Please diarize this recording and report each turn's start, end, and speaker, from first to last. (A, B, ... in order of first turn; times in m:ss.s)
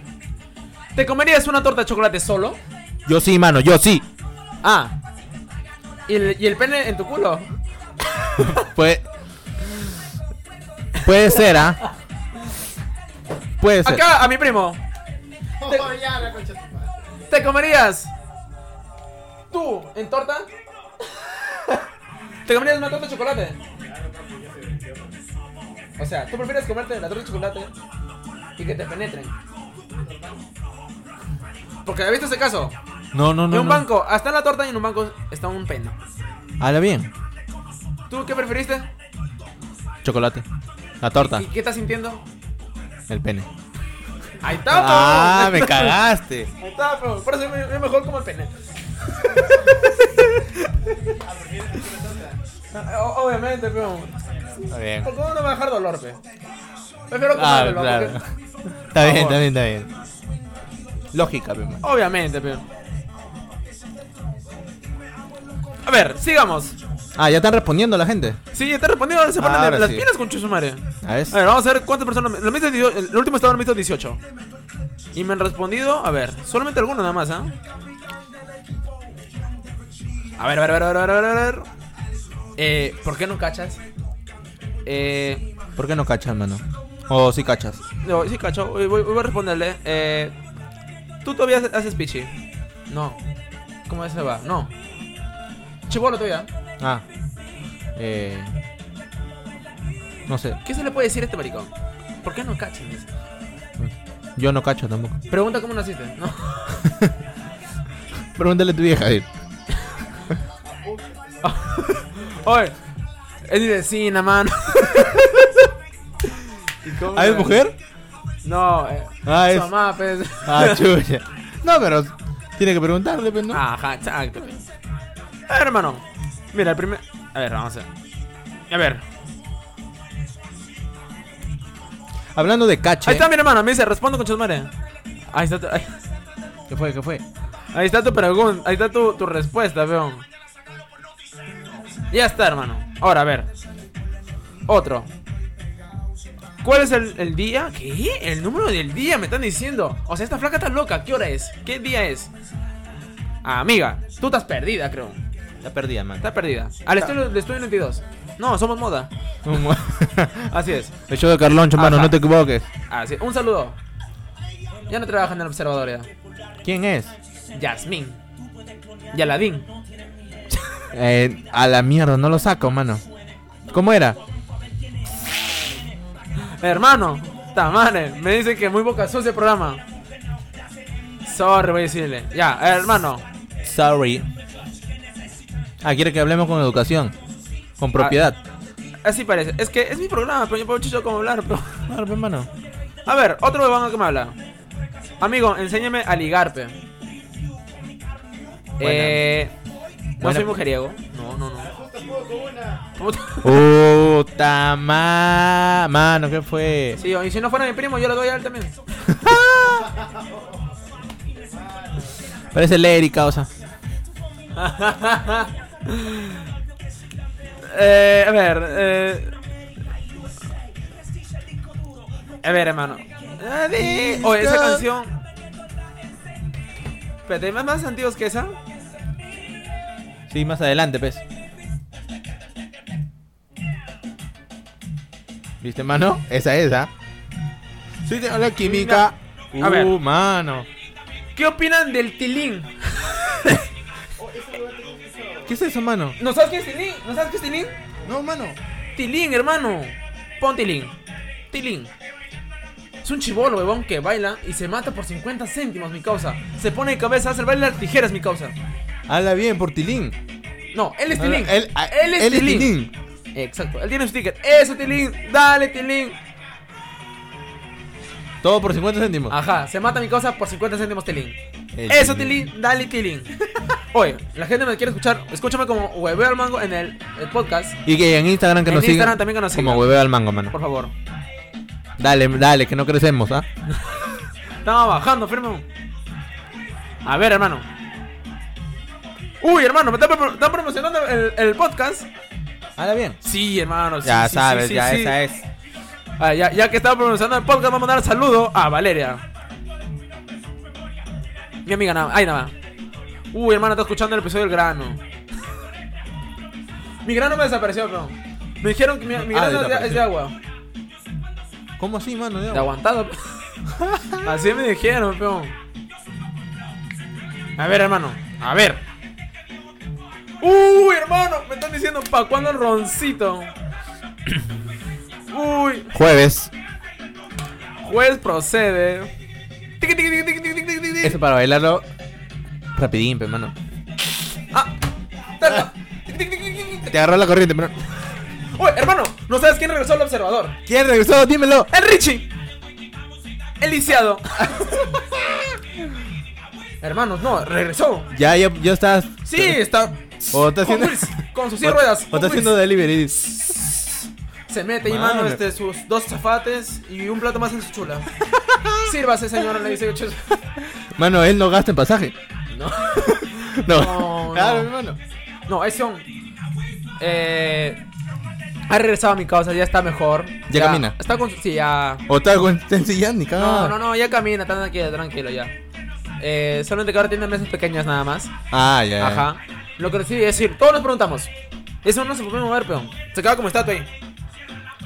0:01.0-0:02.6 A
0:03.1-0:04.1 B
0:04.6-0:04.9 A
0:06.1-0:07.5 A
0:08.2-0:08.6 A
0:08.4-0:09.0 B
0:11.0-0:11.8 B
0:13.6-0:14.0 B
0:13.8-0:14.8 A
0:15.6-0:17.0 C
0:15.6-0:15.9 A
0:17.3-0:18.1 A
0:19.5-0:20.5 A
0:21.2-0:21.8 A
0:22.5-0:23.6 A
0:23.8-0:25.2 C
0:26.0-0:27.7 A
0:28.6-0:29.3 A
0:29.9-0:30.4 C
0:31.8-0:32.8 A
0:33.1-0:33.9 B
0:33.5-0:36.0 A
0:36.6-0:37.1 B
0:38.1-0:38.9 A
0:40.0-0:40.4 B
0:41.0-0:41.5 B
0:41.2-0:42.2 A
0:43.1-0:43.5 B
0:44.4-0:46.0 A
0:44.7-0:46.5 B
0:46.6-0:48.5 A
0:49.2-0:49.8 A
0:50.0-0:50.4 B
0:51.1-0:52.4 C
0:52.7-0:56.2 A
0:54.7-0:55.1 B
0:57.1-0:58.2 A
0:57.4-0:58.3 B
0:58.9-0:59.9 B
0:59.0-0:59.4 A
1:01.1-1:01.8 B
1:01.8-1:02.6 A
1:05.8-1:06.8 A
1:07.2-1:08.4 B
1:08.5-1:14.2 A
1:09.4-1:10.1 B
1:11.0-1:11.4 B
1:15.1-1:17.5 A
1:20.4-1:21.7 A
1:22.6-1:23.8 A
1:24.8-1:25.5 A
1:25.8-1:27.8 B
1:28.0-1:30.4 A
1:31.2-1:32.3 A
1:32.9-1:33.2 A
1:33.9-1:34.7 A
1:35.9-1:36.5 A
1:38.0-1:38.5 B
1:40.3-1:40.6 B
1:40.6-1:41.7 A
1:42.2-1:43.1 A
1:43.8-1:45.2 B
1:45.3-1:46.8 A
1:46.8-1:47.2 B
1:48.4-1:49.3 B
1:50.6-1:51.8 C
1:51.4-1:52.8 A
1:53.5-1:55.3 A
1:55.0-1:55.5 B
1:56.8-1:57.6 A
1:57.1-1:57.8 B
1:58.4-2:00.9 A
1:59.2-1:59.7 B
2:00.4-2:03.6 B
2:03.5-2:04.7 A
2:05.5-2:07.9 A
2:08.7-2:09.0 A
2:12.3-2:13.3 B
2:13.0-2:14.7 A
2:15.3-2:16.0 A
2:16.7-2:17.2 B
2:17.7-2:20.2 A
2:22.1-2:23.5 A
2:24.7-2:25.1 A
2:26.6-2:32.3 A
2:33.4-2:35.2 A
2:35.6-2:36.3 B
2:36.2-2:39.1 A
2:39.4-2:40.5 B
2:40.5-2:40.9 A
2:41.1-2:42.7 B
2:41.8-2:42.2 A
2:42.9-2:43.8 A
2:44.9-2:46.1 A
2:46.6-2:47.1 B
2:47.5-2:48.2 A
2:49.1-2:49.7 A
2:50.9-2:53.0 B
2:53.7-2:54.2 B
2:56.4-2:59.8 A
3:01.2-3:03.2 A
3:03.6-3:04.3 B
3:05.8-3:07.2 B
3:07.8-3:08.4 B
3:09.0-3:11.9 A
3:11.9-3:12.5 B
3:13.1-3:14.4 A
3:15.2-3:16.8 A
3:18.8-3:19.6 A
3:18.8-3:19.3 B
3:20.2-3:20.6 B
3:20.2-3:21.7 A
3:21.6-3:22.8 C
3:23.0-3:23.6 A
3:23.4-3:27.0 B
3:27.0-3:28.8 A
3:29.1-3:29.9 B
3:29.7-3:30.2 C
3:31.4-3:32.1 C
3:32.5-3:33.5 B
3:34.6-3:36.4 A
3:37.6-3:39.3 A
3:42.4-3:45.2 A
3:43.8-3:44.9 B
3:47.3-3:48.6 A
3:50.3-3:51.2 B
3:55.6-3:56.9 B
3:58.0-4:00.7 B
3:58.6-3:59.9 A
4:01.4-4:03.6 A
4:04.2-4:05.6 C
4:05.5-4:06.2 B
4:06.2-4:07.8 A
4:08.0-4:08.6 B
4:09.0-4:10.9 A
4:11.5-4:11.9 A
4:13.0-4:18.6 A
4:19.1-4:20.2 B
4:20.7-4:22.7 A
4:21.2-4:22.9 B
4:23.4-4:26.2 A
4:28.4-4:29.4 B
4:29.3-4:33.3 A
4:31.8-4:32.4 B
4:33.9-4:37.8 A
4:37.9-4:40.6 B
4:38.7-4:39.9 A
4:40.5-4:40.9 A
4:42.0-4:43.5 B
4:43.8-4:44.1 A
4:44.6-4:45.7 A
4:47.0-4:47.7 A
4:49.4-4:52.1 A
4:52.8-4:53.2 B
4:53.2-4:55.2 A
4:54.0-4:55.4 B
4:56.2-4:59.2 A
5:01.7-5:02.5 A
5:03.3-5:05.0 A
5:07.0-5:10.4 A
5:09.1-5:10.1 B
5:11.8-5:12.7 B
5:12.5-5:13.4 A
5:13.7-5:14.3 B
5:14.2-5:15.6 A
5:17.6-5:18.8 A
5:20.4-5:23.5 A
5:25.3-5:25.9 A
5:25.9-5:26.5 B
5:27.8-5:29.1 A
5:29.8-5:31.2 A
5:31.0-5:31.9 B
5:32.8-5:33.6 B
5:35.4-5:37.0 A
5:36.9-5:37.8 B
5:38.5-5:40.6 A
5:40.7-5:41.7 B
5:41.7-5:42.3 A
5:43.6-5:45.2 A
5:46.8-5:48.1 A
5:48.1-5:49.6 B
5:49.2-5:52.6 A
5:50.3-5:53.8 B
5:54.5-5:58.1 A
5:54.8-5:55.4 B
5:58.3-5:58.9 B
5:58.8-6:00.4 A
6:00.8-6:02.2 B
6:02.5-6:04.7 A
6:03.0-6:05.0 B
6:05.5-6:06.1 A
6:07.0-6:07.8 A
6:08.7-6:12.0 A
6:10.5-6:11.0 B
6:12.1-6:13.8 B
6:13.4-6:15.5 A
6:16.2-6:18.3 A
6:18.5-6:19.3 B
6:19.0-6:21.3 A
6:21.8-6:23.9 A